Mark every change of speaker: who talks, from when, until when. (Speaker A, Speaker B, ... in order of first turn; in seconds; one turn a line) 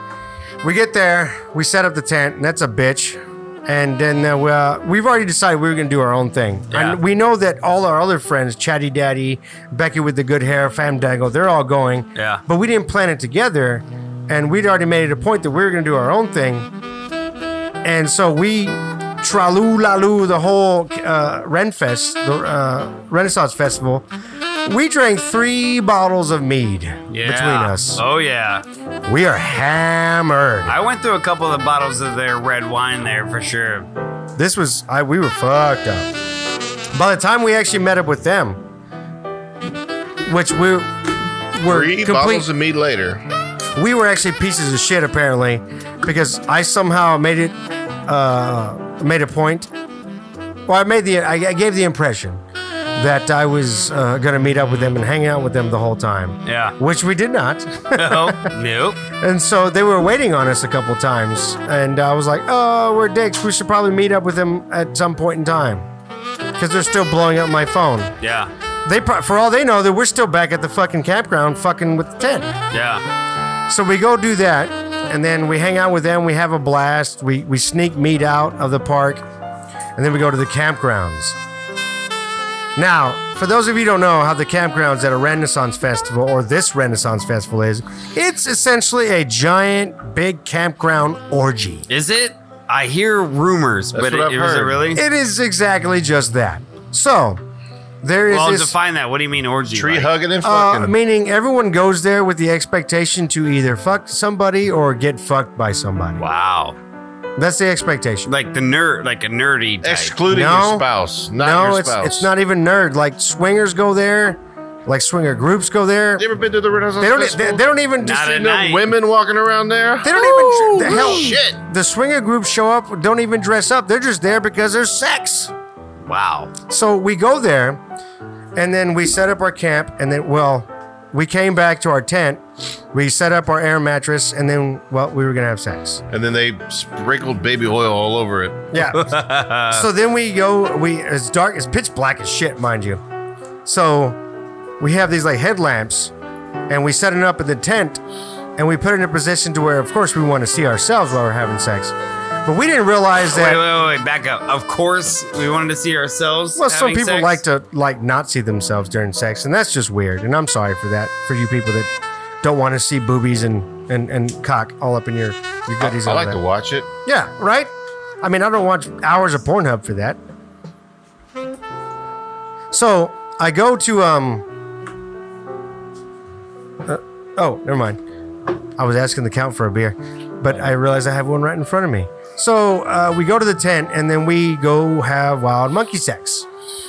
Speaker A: 0.6-16.7
Speaker B: 6.7-7.0
Speaker B: 12.1-12.4
Speaker A: 17.8-24.1
Speaker A: 24.6-28.0
Speaker B: 27.1-28.6
Speaker A: 29.1-30.7
Speaker B: 30.6-33.9
Speaker A: 34.4-36.1
Speaker A: 36.9-38.6
Speaker A: 40.3-41.0
Speaker A: 41.5-42.5
Speaker C: 41.6-43.2
Speaker A: 43.8-49.7
Speaker A: 50.7-52.4
Speaker A: 53.0-58.5
Speaker B: 56.4-56.8
Speaker B: 57.9-59.0
Speaker A: 59.2-65.9
Speaker A: 66.6-68.1
Speaker B: 68.2-68.5
Speaker A: 68.8-72.5
Speaker B: 72.7-73.0
Speaker A: 73.7-79.2
Speaker A: 80.0-81.4
Speaker A: 82.8-91.8
Speaker B: 91.9-95.0
Speaker C: 93.9-94.8
Speaker A: 94.9-97.4
Speaker A: 98.0-98.7
Speaker B: 98.3-100.1
Speaker C: 99.7-100.9
Speaker A: 100.4-106.2
Speaker B: 106.2-106.7
Speaker A: 107.4-108.3
Speaker B: 108.3-110.2
Speaker C: 109.8-112.3
Speaker A: 110.3-116.2
Speaker C: 116.2-117.6
Speaker A: 117.0-118.4
Speaker B: 118.0-118.8
Speaker C: 118.2-121.6
Speaker A: 120.0-125.5
Speaker B: 126.0-126.5
Speaker A: 126.7-127.8
Speaker A: 128.6-136.0
Speaker C: 136.1-138.7
Speaker A: 138.7-143.0
Speaker B: 138.9-139.8
Speaker A: 143.6-144.2
Speaker A: 144.8-146.1
Speaker A: 146.7-148.0
Speaker A: 148.6-153.6
Speaker B: 153.3-157.4
Speaker A: 156.6-161.9
Speaker A: 162.4-166.4
Speaker C: 165.8-166.9
Speaker A: 167.1-167.7
Speaker A: 168.2-170.2
Speaker A: 172.7-174.4
Speaker A: 176.8-178.0
Speaker A: 178.8-186.5